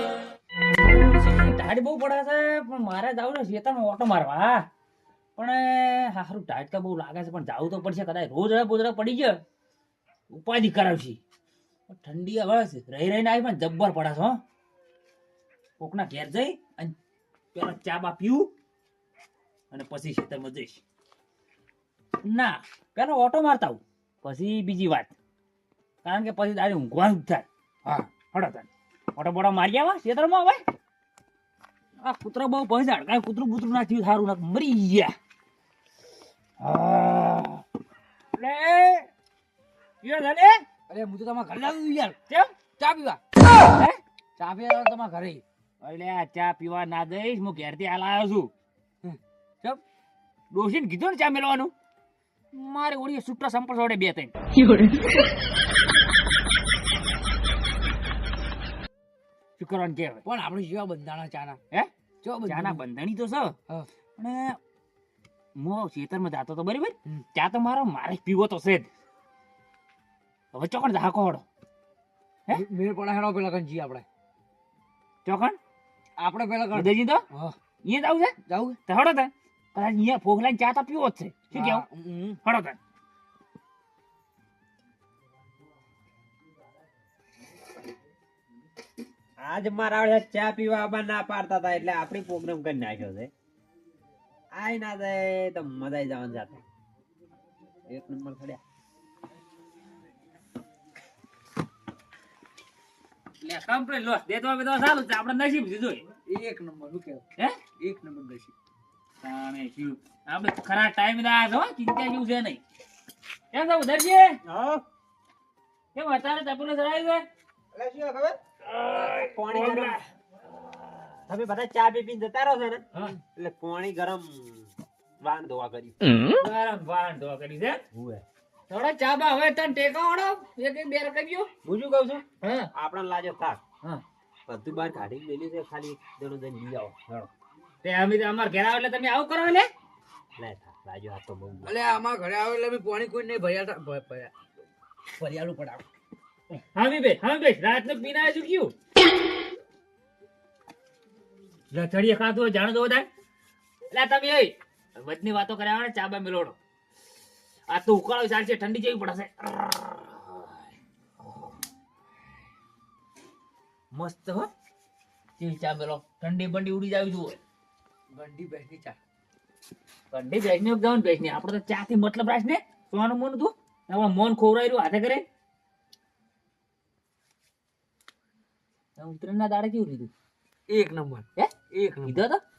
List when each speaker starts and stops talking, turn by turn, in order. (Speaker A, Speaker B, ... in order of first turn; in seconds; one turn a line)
Speaker A: 0.8-4.7
Speaker A: 5.3-9.4
Speaker A: 10.3-11.2
Speaker A: 11.9-14.4
Speaker A: 15.8-16.9
Speaker A: 17.5-18.5
Speaker A: 19.7-20.8
Speaker A: 22.2-25.1
Speaker A: 26.0-30.6
Speaker A: 32.0-35.1
Speaker A: 36.6-37.6
Speaker A: 38.3-39.1
Speaker A: 40.0-40.6
Speaker B: 40.9-42.2
Speaker A: 42.3-42.5
Speaker B: 42.8-43.2
Speaker A: 43.7-44.0
Speaker B: 44.4-45.4
Speaker A: 45.8-48.5
Speaker B: 49.0-49.8
Speaker A: 50.5-51.7
Speaker A: 52.5-54.3
Speaker A: 59.6-60.2
Speaker B: 60.2-61.6
Speaker B: 62.2-62.8
Speaker A: 62.5-63.5
Speaker A: 64.2-64.6
Speaker A: 65.6-68.9
Speaker A: 70.5-71.4
Speaker B: 72.5-74.0
Speaker A: 75.2-75.6
Speaker B: 76.2-77.5
Speaker A: 76.7-77.2
Speaker A: 77.8-78.3
Speaker B: 78.5-78.8
Speaker A: 78.9-81.8
Speaker B: 81.5-82.4
Speaker A: 82.4-82.8
Speaker C: 89.4-93.3
Speaker C: 94.5-96.6
Speaker C: 97.9-98.6
Speaker A: 103.4-106.0
Speaker B: 106.3-107.2
Speaker B: 107.8-108.5
Speaker A: 109.2-112.6
Speaker A: 113.5-114.4
Speaker C: 114.5-114.8
Speaker A: 115.9-117.2
Speaker C: 117.7-118.4
Speaker A: 118.6-120.0
Speaker C: 119.2-120.0
Speaker C: 121.3-122.8
Speaker C: 123.3-126.0
Speaker A: 126.4-127.8
Speaker C: 127.9-128.2
Speaker A: 128.7-131.5
Speaker C: 131.6-132.2
Speaker A: 132.4-132.7
Speaker C: 132.7-133.6
Speaker C: 134.5-137.3
Speaker A: 137.8-139.7
Speaker C: 140.4-141.7
Speaker B: 141.6-144.3
Speaker B: 145.2-145.8
Speaker A: 146.7-148.7
Speaker A: 151.7-153.1
Speaker A: 153.9-156.6
Speaker A: 157.7-160.6
Speaker A: 163.9-164.5
Speaker A: 165.4-167.4
Speaker B: 168.1-169.0
Speaker A: 170.1-175.2
Speaker A: 179.0-180.1
Speaker B: 180.7-182.2
Speaker A: 182.0-182.4